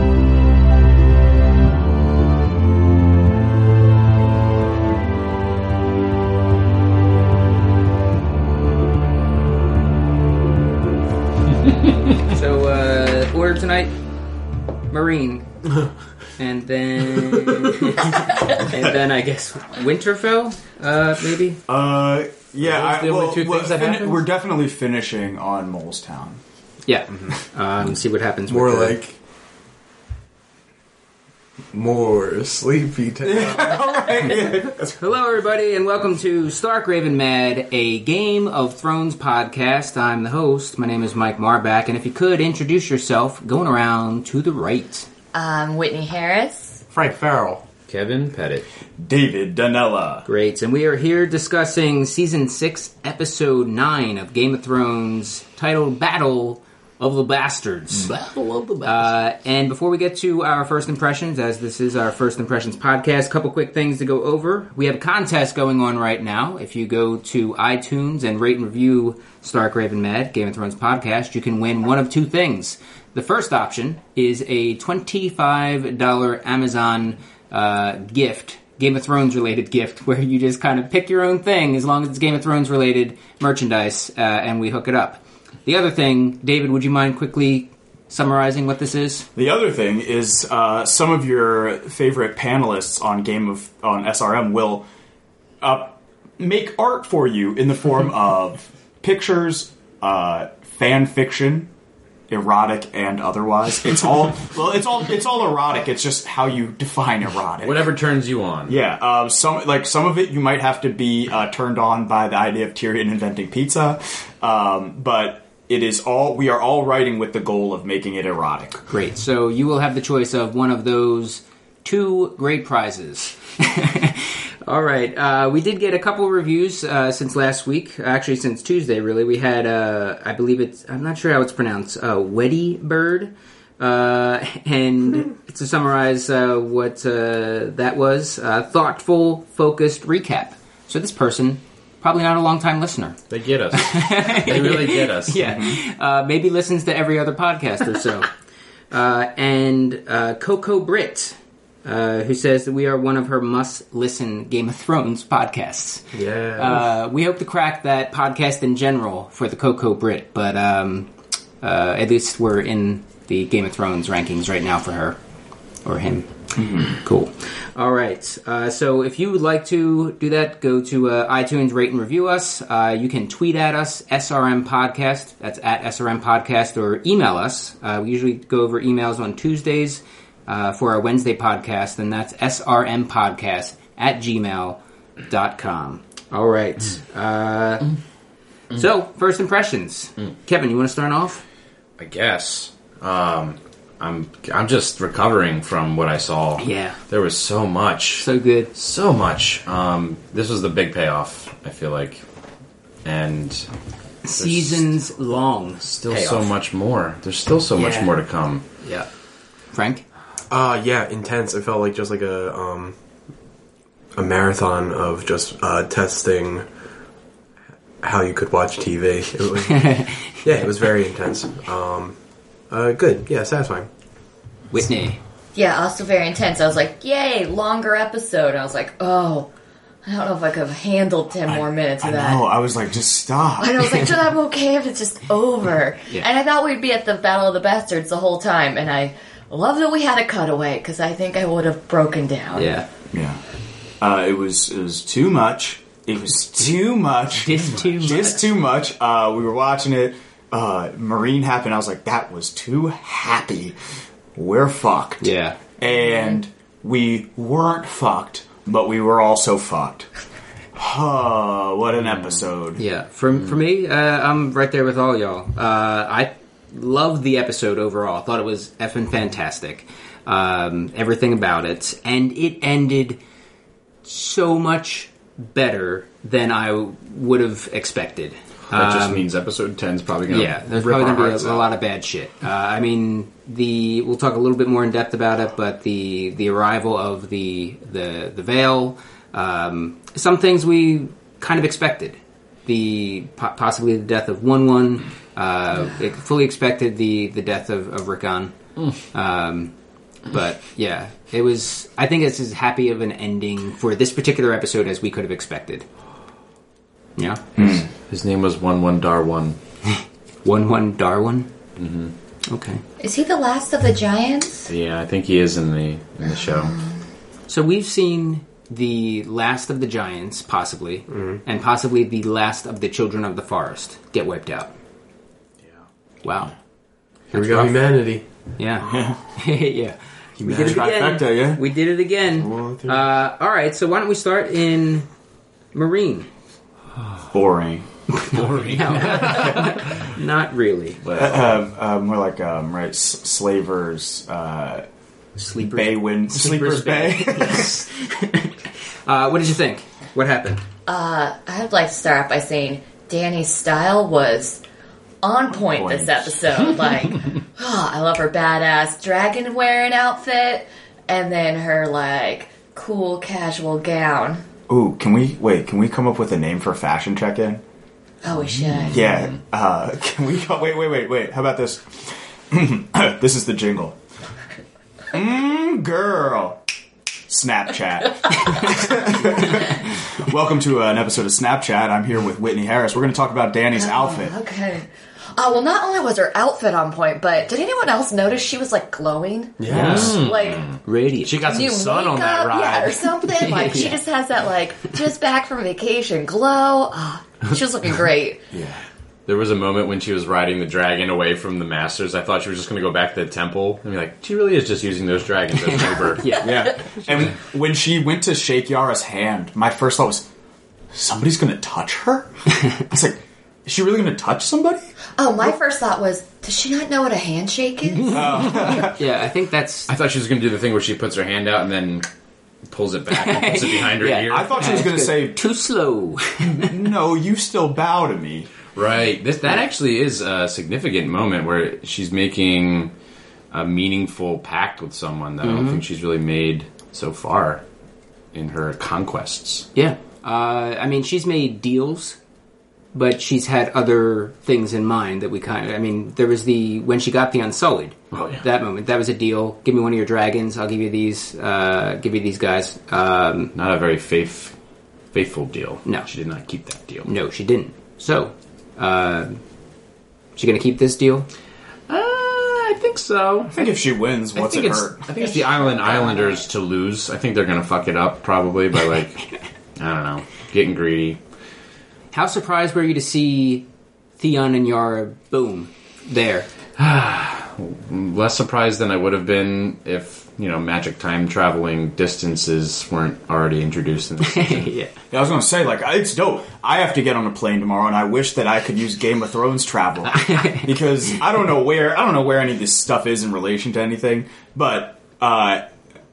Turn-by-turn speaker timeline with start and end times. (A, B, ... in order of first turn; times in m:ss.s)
0:12.3-0:14.0 A
0:14.9-0:15.5 A
0:16.4-0:21.6 A
0:21.7-0:26.4 B
0:22.6-0:24.2 C
0:26.9-0:29.0 A
0:28.5-0:29.2 D
0:31.7-0:34.4 D
0:33.2-0:35.0 B
0:35.0-0:45.1 A
0:45.3-0:46.8 E
0:46.9-0:47.6 D
0:47.9-0:48.7 C
0:49.0-0:50.3 B
0:50.3-0:58.2 A
0:58.0-0:59.0 C
0:58.8-1:29.3 A
1:29.4-1:34.8 B
1:35.6-1:41.7 B
1:42.3-1:47.9 B
1:47.6-1:48.8 C
1:48.7-1:58.8 B
1:58.9-2:23.2 A
2:23.3-2:25.6 C
2:23.7-2:28.3 A
2:28.9-2:45.2 A
2:36.1-2:36.9 D
2:45.8-3:07.9 A
2:46.6-2:47.0 B
3:08.7-3:11.4 A
3:12.0-3:22.2 C
3:16.6-3:17.0 A
3:18.2-3:18.7 A
3:23.0-3:23.7 C
3:24.2-3:26.5 A
3:24.4-3:25.0 C
3:25.8-3:28.6 C
3:27.7-3:28.1 A
3:28.8-3:29.1 A
3:29.7-3:30.0 A
3:30.5-3:33.0 D
3:34.2-3:36.7 D
3:38.0-3:42.2 D
3:39.7-3:40.4 A
3:42.7-3:43.9 D
3:44.7-3:45.2 A
3:45.6-3:49.5 E
3:50.0-3:52.5 E
3:52.0-3:53.9 B
3:53.6-4:02.7 E
4:02.6-4:02.9 A
4:03.1-4:03.4 B
4:04.0-4:13.8 B
4:07.4-4:08.5 A
4:14.4-4:20.1 B
4:15.2-4:15.6 A
4:20.8-4:22.8 B
4:22.8-4:33.2 A
4:34.0-4:39.3 A
4:38.7-4:41.7 C
4:40.3-4:58.5 A
4:59.1-4:59.7 A
5:00.3-5:05.9 A
5:07.2-5:07.4 A
5:07.6-5:09.6 C
5:09.9-5:11.5 A
5:11.8-5:12.1 C
5:12.5-5:12.8 A
5:13.0-5:14.7 E
5:14.7-5:16.8 C
5:17.5-5:24.7 A
5:21.1-5:21.4 D
5:26.2-5:26.5 A
5:27.3-5:27.8 A
5:27.3-5:28.2 D
5:28.6-5:35.1 A
5:28.8-5:29.2 B
5:30.4-5:30.9 D
5:30.6-5:31.6 B
5:32.4-5:33.0 D
5:35.7-5:36.3 A
5:37.3-5:37.9 B
5:38.1-5:41.0 A
5:38.3-5:39.8 C
5:41.0-5:41.4 C
5:41.1-5:44.9 B
5:45.4-5:50.6 A
5:45.6-5:47.8 B
5:50.9-5:54.6 E
5:55.2-6:04.4 E
6:04.7-6:07.6 B
6:08.2-6:09.3 E
6:08.8-6:14.0 B
6:15.1-6:16.6 B
6:17.3-6:24.3 B
6:23.8-6:30.8 E
6:29.6-6:30.2 D
6:29.7-6:33.2 C
6:30.8-6:31.4 A
6:31.4-6:38.5 E
6:33.3-6:34.0 A
6:38.5-6:38.8 B
6:39.3-6:46.5 C
6:45.6-6:46.8 A
6:46.4-6:50.2 B
6:50.9-6:54.9 B
6:55.2-6:58.2 E
6:58.1-6:59.0 B
6:58.8-6:59.9 A
6:59.9-7:02.1 C
7:02.7-7:04.6 C
7:03.1-7:06.8 A
7:04.3-7:05.4 B
7:06.4-7:08.5 B
7:08.8-7:12.9 C
7:13.5-7:17.6 C
7:15.4-7:15.8 A
7:18.3-7:19.7 C
7:19.8-7:22.2 A
7:22.9-7:33.5 A
7:28.1-7:28.4 C
7:33.6-7:34.5 C
7:35.1-7:37.1 C
7:37.0-7:39.4 A
7:40.4-7:41.3 A
7:41.9-7:43.8 C
7:43.5-7:45.1 B
7:44.4-7:51.2 C
7:45.2-7:46.4 E
7:52.1-7:53.7 A
7:54.2-7:56.5 A
7:56.8-8:04.7 C
8:04.2-8:04.9 A
8:05.1-8:15.7 B
8:10.1-8:10.7 A